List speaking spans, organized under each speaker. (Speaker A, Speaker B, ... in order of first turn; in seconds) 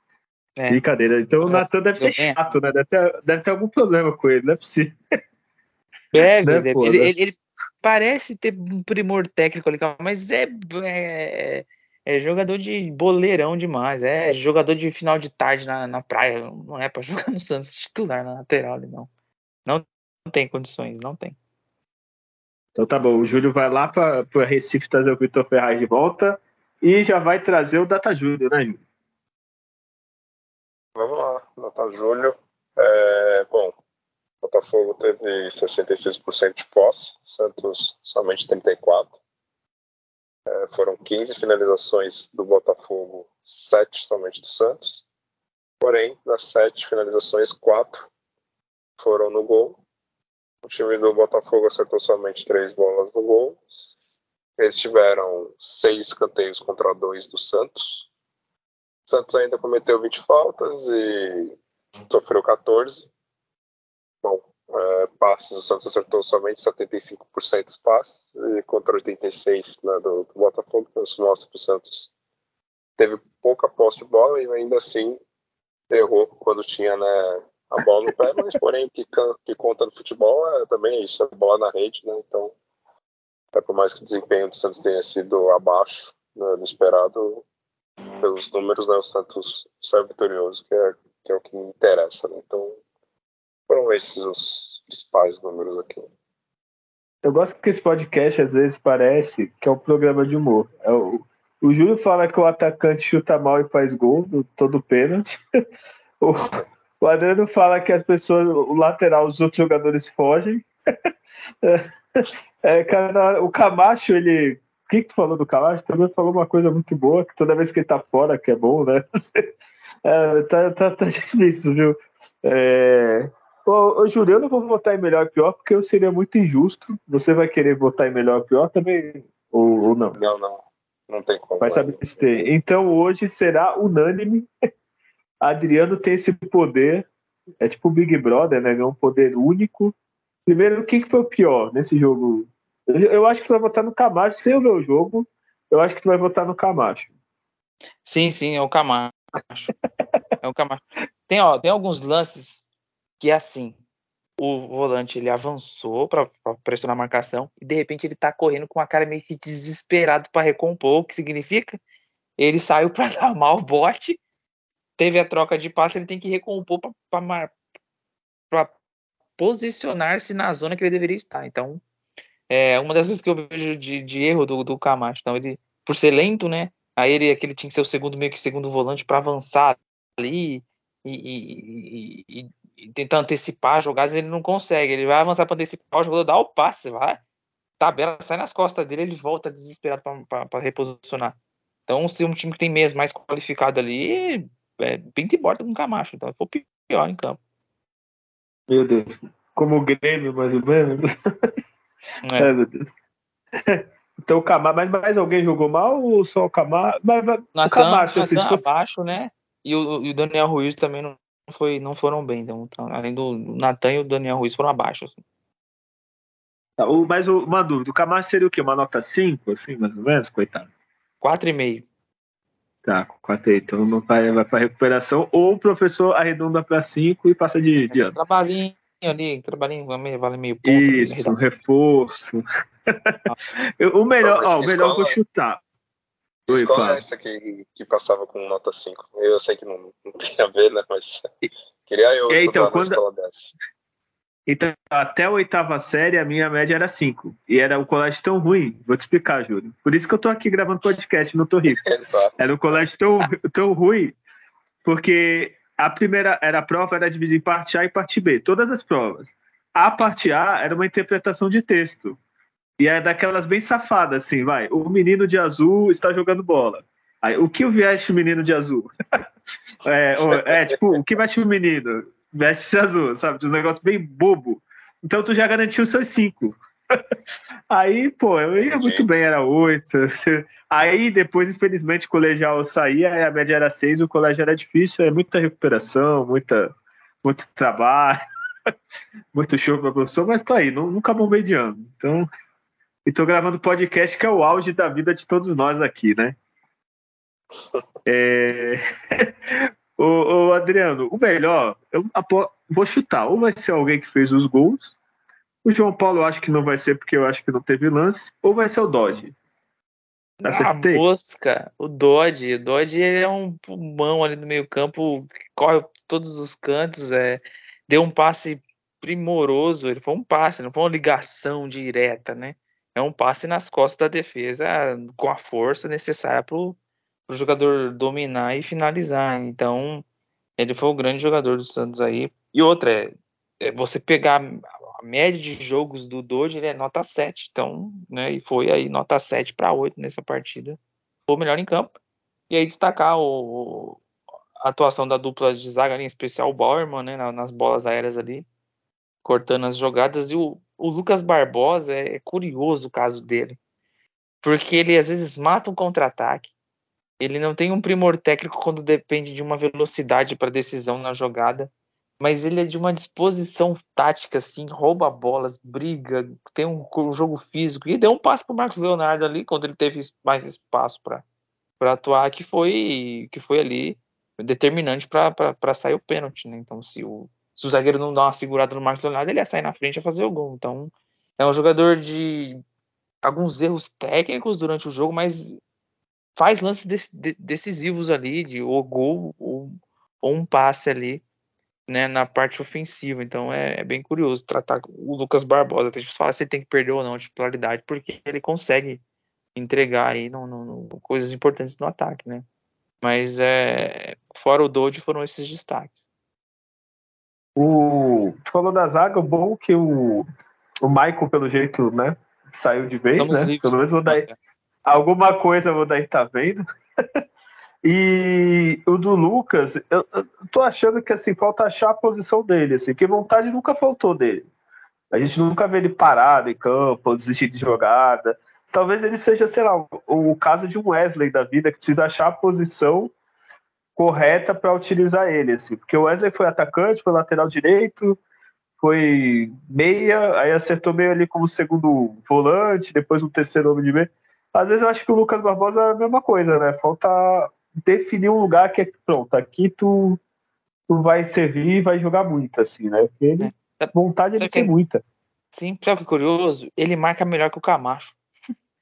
Speaker A: 0.6-0.8, 1.4-2.4, 6.1-19.1, 19.6-21.4, 148.0-149.7, 150.4-152.6, 153.2-153.8, 154.4-161.8, 162.4-164.2, 165.0-167.5, 169.4-171.8, 172.5-187.2, 187.8-191.3, 191.9-197.4, 202.2-202.5, 207.6-215.2, 221.2-221.8, 227.9-231.4, 310.4-326.8, 327.3-330.0, 330.6-341.9, 342.5-344.0, 344.6-348.4, 349.2-353.6, 354.4-356.5, 357.2-371.2, 371.8-382.6, 383.2-385.6, 386.4-391.2, 391.9-399.0, 399.5-402.4, 403.0-406.0, 413.2-414.4, 453.4-454.7, 455.5-458.2
Speaker B: 0.7-5.0, 6.2-7.1, 22.8-28.8, 97.2-105.4, 106.2-110.7, 111.6-119.4, 120.0-130.2, 131.6-134.5, 135.4-137.1, 137.6-139.9, 140.4-147.1, 198.7-201.5, 202.4-202.9, 203.7-208.7, 216.8-220.7, 222.8-228.2, 230.6-233.1, 233.8-235.6, 236.5-237.0, 242.3-243.0, 244.5-251.8, 252.4-254.2, 254.8-262.2, 262.8-268.9, 269.8-276.6, 277.7-286.7, 287.2-288.2, 289.3-292.2, 293.1-296.4, 298.1-299.3, 300.0-304.9, 305.6-309.3, 310.4-311.0, 407.6-410.2, 410.8-414.2, 414.9-416.6, 417.8-424.5, 425.1-433.1, 433.9-438.2, 438.8-450.2, 450.9-455.0
Speaker C: 30.9-33.7, 34.4-39.2, 40.5-45.0, 45.8-48.1, 49.0-49.8, 50.6-53.9, 54.6-58.1, 59.1-61.6, 62.1-63.1, 64.2-72.1, 73.0-75.2, 75.9-82.5, 83.5-87.4, 88.2-92.8, 93.7-96.1, 130.1-132.0, 234.2-235.2, 236.5-241.3, 241.8-243.5, 251.7-252.8, 270.3-271.0, 278.6-279.1